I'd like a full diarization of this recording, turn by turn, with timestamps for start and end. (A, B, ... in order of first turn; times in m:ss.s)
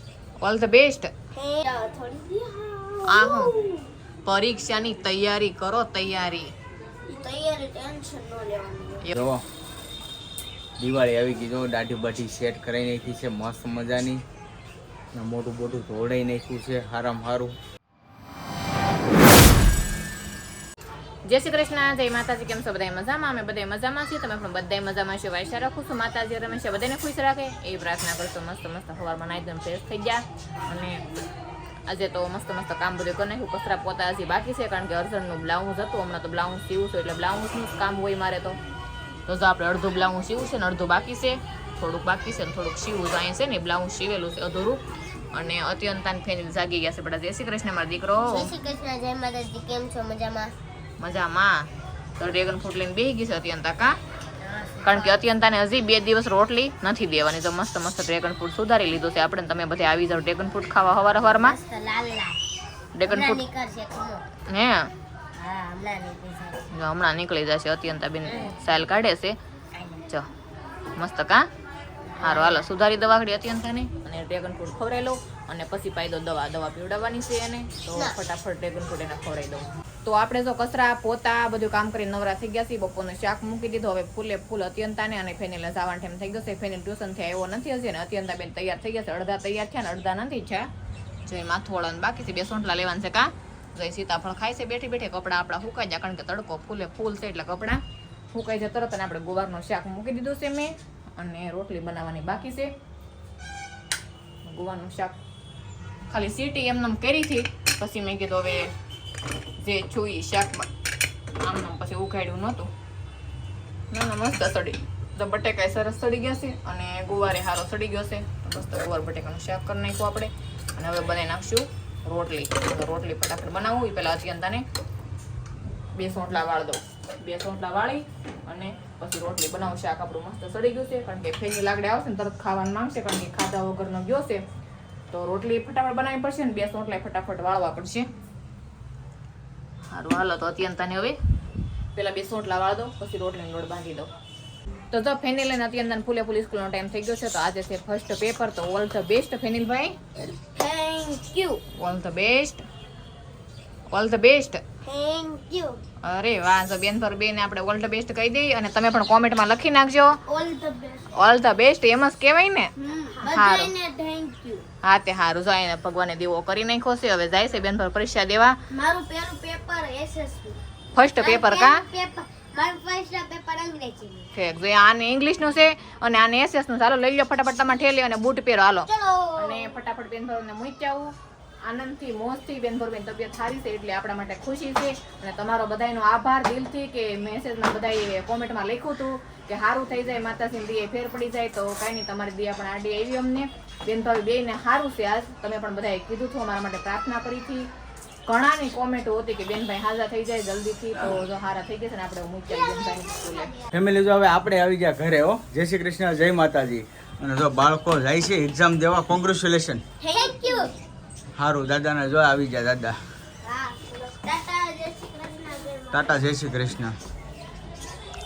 0:00.4-0:01.1 A
0:01.3-0:03.9 B
0:03.1-0:03.5 A
0:04.2-0:06.5 A
0:07.1-0:09.0 B
0:09.1-0:09.4 C
0:10.8-0:14.2 C
0:15.1-0:17.5 C
0:21.2-0:31.0 A
0:31.9-0:38.6 A
0:39.3-0:48.5 A
0:48.3-0:50.6 B
0:51.0-0:54.0 A
0:54.4-0:55.2 B
0:54.8-1:01.6 A
1:01.2-1:02.4 B
1:03.0-1:03.4 A
1:03.0-1:04.3 B
1:04.5-1:04.9 A
1:05.4-1:06.7 B
1:06.7-1:09.4 A
1:08.2-1:08.7 B
1:09.7-1:10.0 B
1:11.0-1:11.5 A
1:12.1-1:12.6 B
1:12.2-1:30.7 A
1:31.2-1:37.8 A
1:38.3-1:42.7 A
1:44.4-1:45.2 A
1:46.1-1:48.7 A
1:49.6-1:50.7 A
1:51.4-1:52.7 A
1:53.9-2:04.6 A
2:05.9-2:14.4 A
2:15.1-2:18.1 A
2:19.9-2:21.2 A
2:21.9-2:24.1 A
2:24.9-2:30.0 A
2:30.3-2:31.6 B
2:31.7-2:32.6 A
2:33.9-2:34.6 A
2:34.8-2:35.8 B
2:36.0-2:40.2 A
2:40.2-2:41.2 B
2:41.2-2:42.7 A
2:42.8-2:44.6 B
2:43.3-2:43.7 A
2:44.8-2:48.5 A
2:48.7-2:50.6 B
2:50.9-2:51.8 A
2:51.2-2:54.3 B
2:54.3-3:01.1 A
2:58.8-2:59.7 B
3:01.6-3:17.7 A
3:18.2-3:23.5 A
3:23.7-3:29.8 C
3:30.0-3:30.7 B
3:31.4-3:33.0 C
3:33.4-3:36.2 B
3:35.9-3:37.0 C